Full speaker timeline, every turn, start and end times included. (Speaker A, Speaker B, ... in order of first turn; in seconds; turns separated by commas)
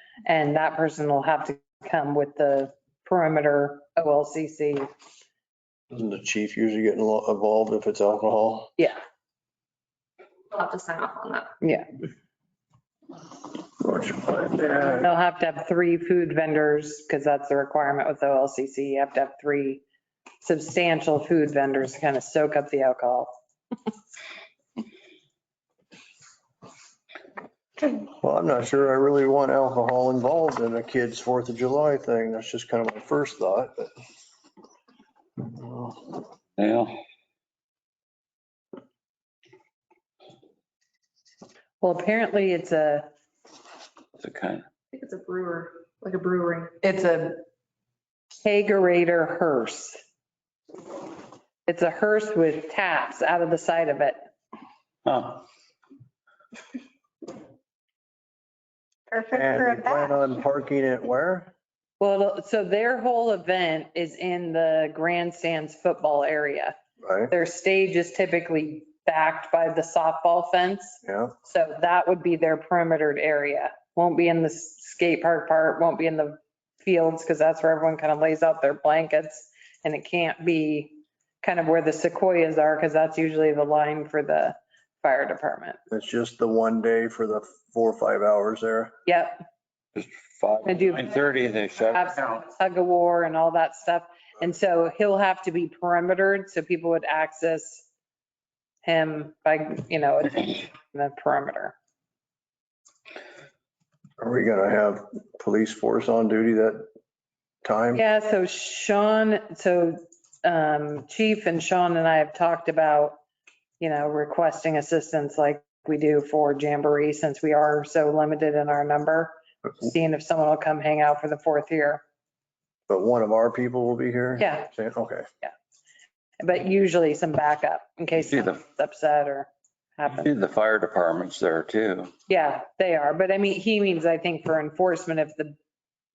Speaker A: 0.2-4.9, Speaker B: 5.9-8.7, Speaker C: 10.5-11.5, Speaker A: 11.6-11.9, Speaker B: 13.8-15.1, Speaker A: 15.0-19.8, Speaker A: 20.4-23.3, Speaker B: 27.9-33.9, Speaker B: 35.4-36.1, Speaker D: 36.6-37.0, Speaker A: 41.8-43.1, Speaker D: 44.2-44.6, Speaker C: 44.9-46.8, Speaker A: 46.8-47.4, Speaker A: 48.4-50.0, Speaker A: 51.7-54.3, Speaker D: 55.0-55.5, Speaker B: 59.3-61.5, Speaker A: 62.0-66.7, Speaker B: 67.0-67.3, Speaker A: 67.3-85.8, Speaker B: 71.0-71.3, Speaker B: 85.9-88.9, Speaker A: 89.0-89.4, Speaker D: 89.9-92.4, Speaker A: 90.7-91.1, Speaker A: 91.9-97.9, Speaker A: 98.8-101.7, Speaker B: 104.2-106.8, Speaker B: 107.6-108.0, Speaker A: 107.9-113.2, Speaker A: 113.8-122.0, Speaker B: 122.9-125.3, Speaker A: 124.4-124.7, Speaker A: 126.4-130.3, Speaker D: 128.2-128.6, Speaker D: 130.1-132.1, Speaker A: 132.3-135.6